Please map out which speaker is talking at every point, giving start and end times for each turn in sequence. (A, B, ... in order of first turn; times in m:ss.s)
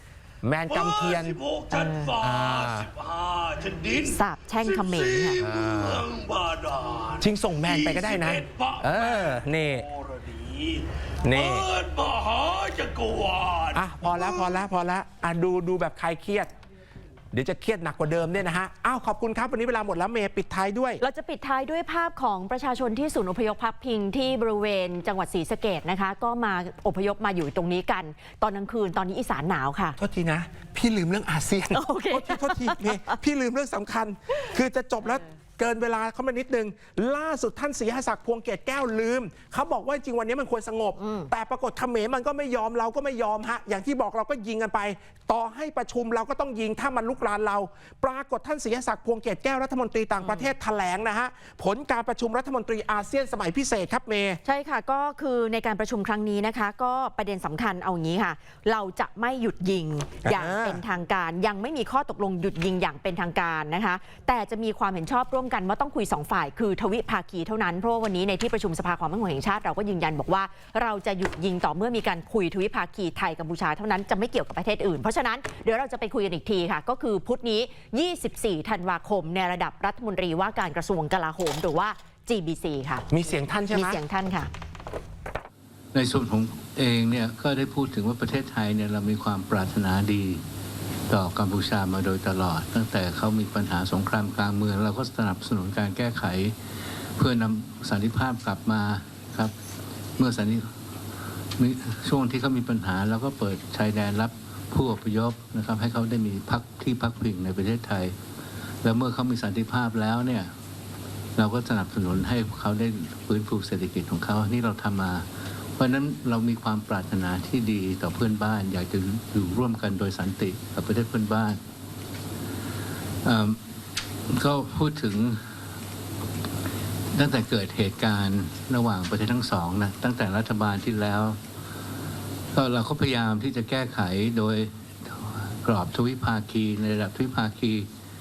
0:00.4-0:01.5 A
0:00.7-0:04.2 B
0:01.7-0:02.1 C
0:02.1-0:02.9 A
0:04.0-0:05.4 C
0:04.8-0:07.2 B
0:05.4-0:06.1 A
0:07.2-0:09.9 A
0:07.7-0:09.2 B
0:10.1-0:10.8 B
0:11.2-0:11.7 A
0:11.4-0:13.8 B
0:13.7-0:16.5 A
0:17.3-0:21.0 A
0:21.0-0:30.0 C
0:30.0-0:54.4 A
0:31.7-0:33.2 C
0:41.0-0:41.3 C
0:50.2-0:50.5 C
0:54.4-1:23.1 C
1:00.2-1:00.8 A
1:23.1-1:24.0 A
1:23.7-1:24.5 C
1:25.9-1:30.4 D
1:31.1-1:39.6 D
1:40.2-1:40.7 D
1:41.6-1:48.2 D
1:48.8-1:50.5 D
1:51.4-2:01.6 D
2:03.2-2:03.6 D
2:04.3-2:05.6 D
2:07.1-2:11.4 D
2:12.5-2:17.9 D